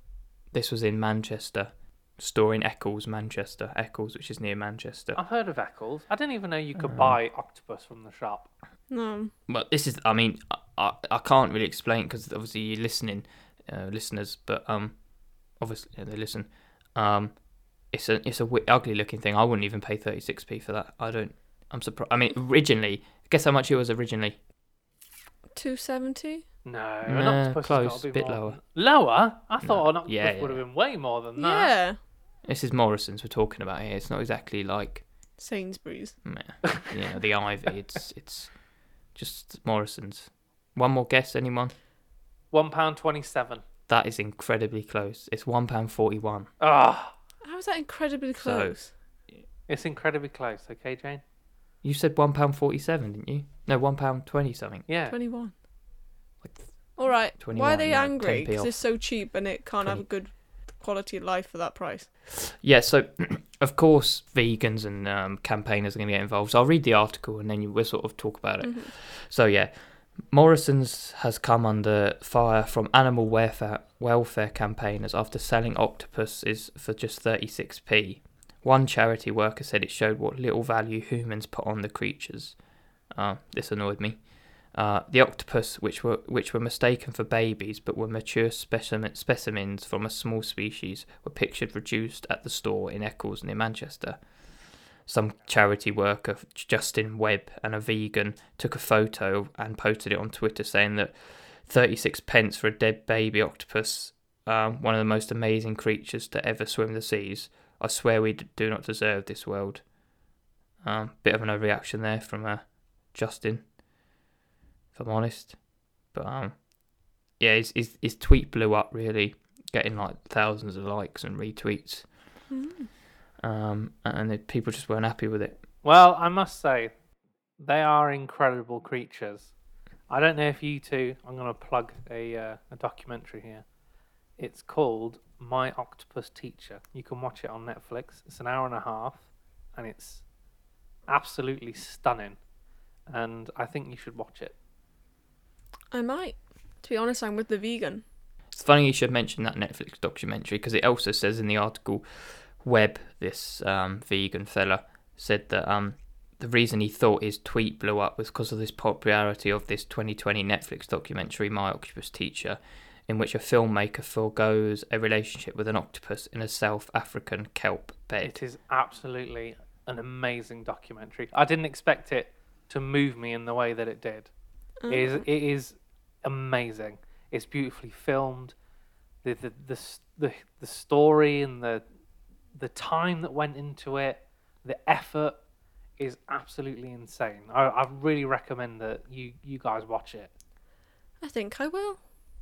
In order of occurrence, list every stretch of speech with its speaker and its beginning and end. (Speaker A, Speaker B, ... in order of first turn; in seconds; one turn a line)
Speaker A: 0.5-5.2
Speaker B: 5.2-8.5
Speaker A: 6.8-7.2
Speaker C: 8.9-9.3
Speaker A: 9.5-14.9
Speaker A: 15.6-17.3
Speaker A: 17.9-24.4
Speaker C: 25.5-26.4
Speaker B: 26.6-31.7
Speaker A: 27.1-28.6
Speaker A: 29.6-30.6
Speaker C: 31.4-32.0
Speaker A: 32.4-35.0
Speaker C: 35.4-36.1
Speaker A: 36.2-38.5
Speaker B: 36.7-37.0
Speaker A: 39.1-41.7
Speaker B: 42.5-43.6
Speaker A: 43.9-46.5
Speaker B: 46.6-47.1
Speaker C: 47.4-48.9
Speaker A: 48.4-48.8
Speaker B: 49.7-51.2
Speaker A: 51.8-54.9
Speaker B: 54.9-55.1
Speaker C: 55.1-55.5
Speaker A: 56.4-56.7
Speaker C: 57.0-62.1
Speaker A: 57.4-58.7
Speaker A: 62.3-69.7
Speaker C: 68.6-68.9
Speaker A: 70.2-82.5
Speaker A: 83.1-84.2
Speaker A: 84.7-94.2
Speaker A: 95.1-109.8
Speaker A: 110.8-113.6
Speaker A: 114.9-115.5
Speaker A: 116.1-116.5
Speaker A: 117.4-122.1
Speaker C: 122.5-122.9
Speaker A: 123.4-125.6
Speaker B: 125.8-126.9
Speaker B: 127.6-129.5
Speaker B: 130.1-133.6
Speaker B: 134.4-139.2
Speaker B: 139.8-140.2
Speaker B: 141.1-142.4
Speaker B: 143.1-144.5
Speaker C: 145.9-148.0
Speaker A: 148.5-168.4
Speaker B: 168.2-174.3
Speaker C: 174.8-175.2
Speaker B: 174.9-178.5
Speaker B: 179.2-181.8
Speaker B: 182.6-185.3
Speaker B: 186.0-190.3
Speaker C: 191.2-192.0